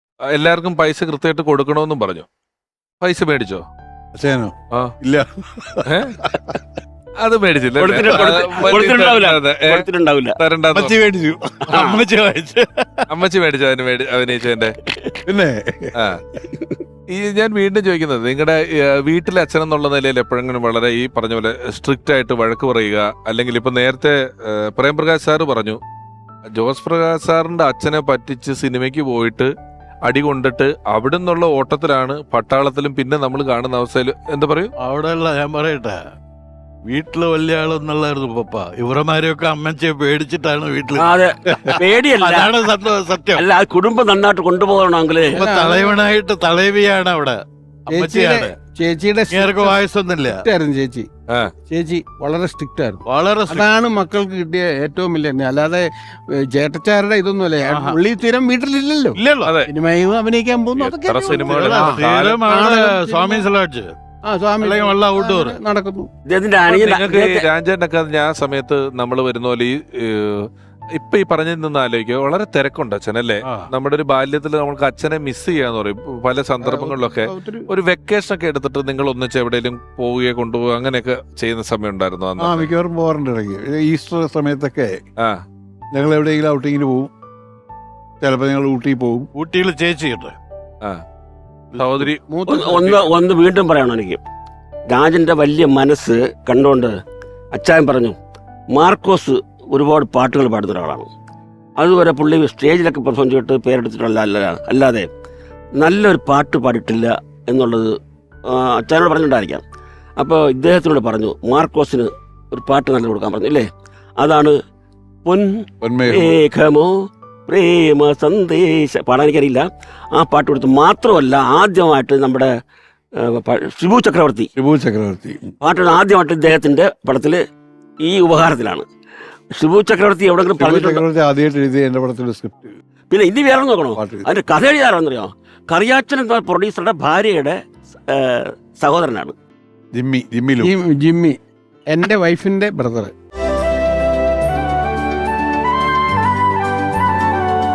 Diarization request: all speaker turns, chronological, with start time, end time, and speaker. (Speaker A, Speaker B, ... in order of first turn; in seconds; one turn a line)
Speaker A: 0.3-2.2
Speaker A: 3.0-3.6
Speaker B: 4.2-6.6
Speaker A: 5.8-6.2
Speaker A: 7.2-9.8
Speaker C: 7.8-10.4
Speaker A: 10.4-10.9
Speaker B: 10.7-11.8
Speaker D: 11.7-13.0
Speaker C: 11.7-12.1
Speaker A: 13.1-14.7
Speaker C: 14.9-15.1
Speaker B: 15.2-15.9
Speaker A: 17.1-25.8
Speaker A: 26.5-29.5
Speaker A: 30.1-34.7
Speaker D: 34.8-36.0
Speaker D: 36.9-41.1
Speaker C: 40.9-42.6
Speaker D: 42.2-43.5
Speaker C: 43.4-45.4
Speaker D: 45.3-48.5
Speaker E: 45.4-46.0
Speaker E: 47.9-51.1
Speaker D: 49.3-50.5
Speaker E: 51.7-55.9
Speaker D: 53.1-53.7
Speaker E: 56.5-63.5
Speaker D: 57.6-58.0
Speaker D: 59.1-59.6
Speaker A: 59.4-59.7
Speaker A: 60.8-62.4
Speaker D: 61.3-63.9
Speaker E: 64.2-66.1
Speaker D: 64.6-65.6
Speaker C: 66.3-67.5
Speaker A: 66.7-82.7
Speaker D: 73.4-73.7
Speaker E: 76.6-77.6
Speaker B: 82.4-84.9
Speaker B: 85.9-87.1
Speaker B: 88.2-89.3
Speaker D: 89.3-90.3
Speaker D: 91.7-92.1
Speaker A: 91.8-92.2
Speaker E: 92.3-93.0
Speaker C: 92.5-94.2
Speaker C: 94.9-96.9
Speaker C: 97.5-98.2
Speaker C: 98.7-101.1
Speaker C: 101.8-105.1
Speaker C: 105.8-107.9
Speaker C: 108.5-109.6
Speaker C: 110.2-113.7
Speaker C: 114.2-114.5
Speaker C: 115.2-116.9
Speaker B: 115.8-116.4
Speaker C: 117.5-122.5
Speaker C: 123.2-124.5
Speaker B: 124.5-125.5
Speaker C: 125.6-127.4
Speaker C: 128.0-128.8
Speaker C: 129.5-131.0
Speaker B: 130.6-132.7
Speaker C: 133.1-137.6
Speaker B: 133.9-134.3
Speaker C: 138.1-139.3
Speaker B: 139.9-140.7
Speaker E: 140.6-141.4
Speaker E: 141.9-143.1